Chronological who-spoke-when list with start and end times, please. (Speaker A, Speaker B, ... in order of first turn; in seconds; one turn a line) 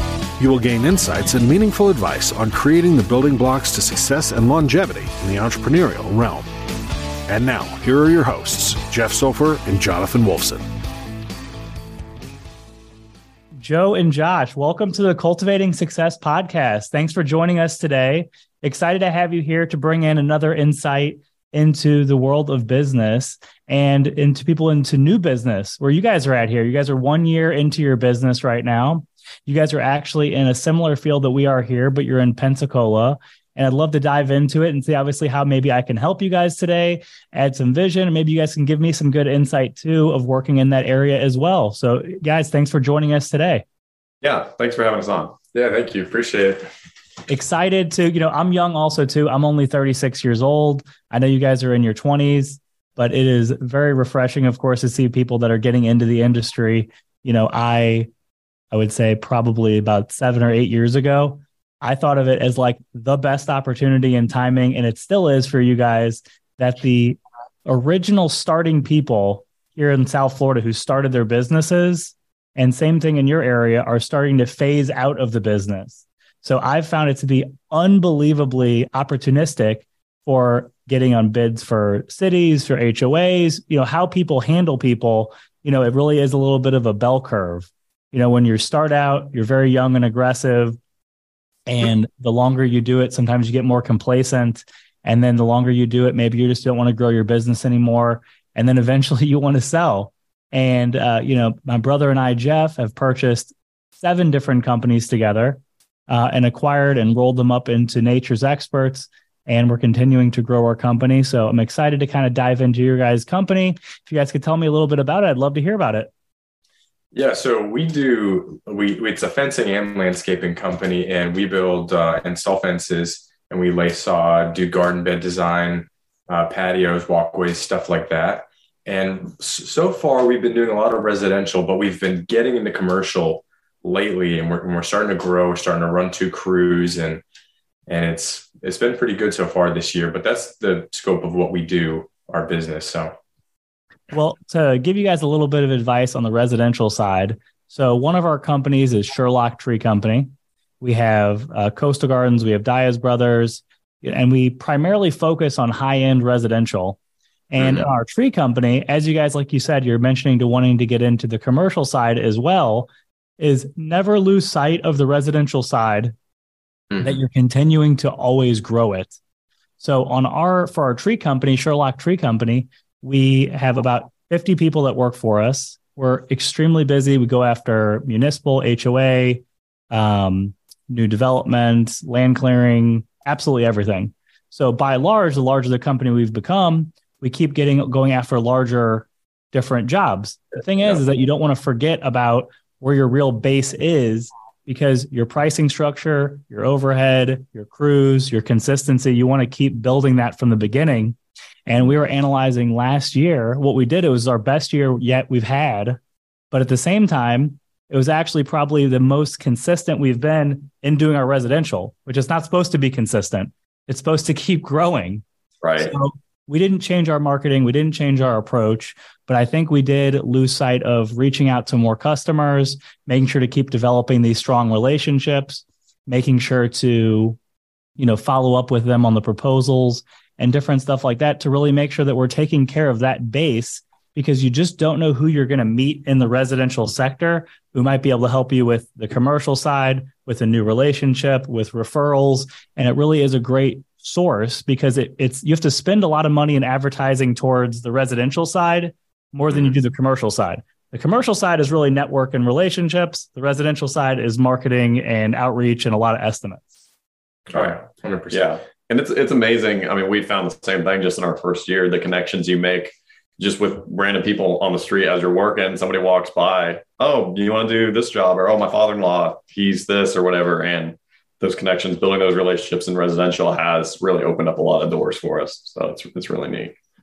Speaker A: 0.4-6.5
Speaker A: 7.3-10.7
Speaker B: 13.6-43.6
Speaker C: 44.2-45.4
Speaker D: 45.5-46.7
Speaker B: 47.3-58.1
Speaker B: 58.7-90.8
Speaker B: 91.7-116.1
Speaker D: 117.1-137.2
Speaker D: 137.9-143.1
Speaker B: 144.1-157.0
Speaker B: 157.5-166.1
Speaker B: 167.0-169.2
Speaker B: 169.8-201.2
Speaker B: 201.7-206.0
Speaker B: 206.5-215.2
Speaker C: 215.6-215.9
Speaker B: 215.8-227.4
Speaker B: 228.0-256.7
Speaker D: 257.5-258.4
Speaker C: 258.3-276.8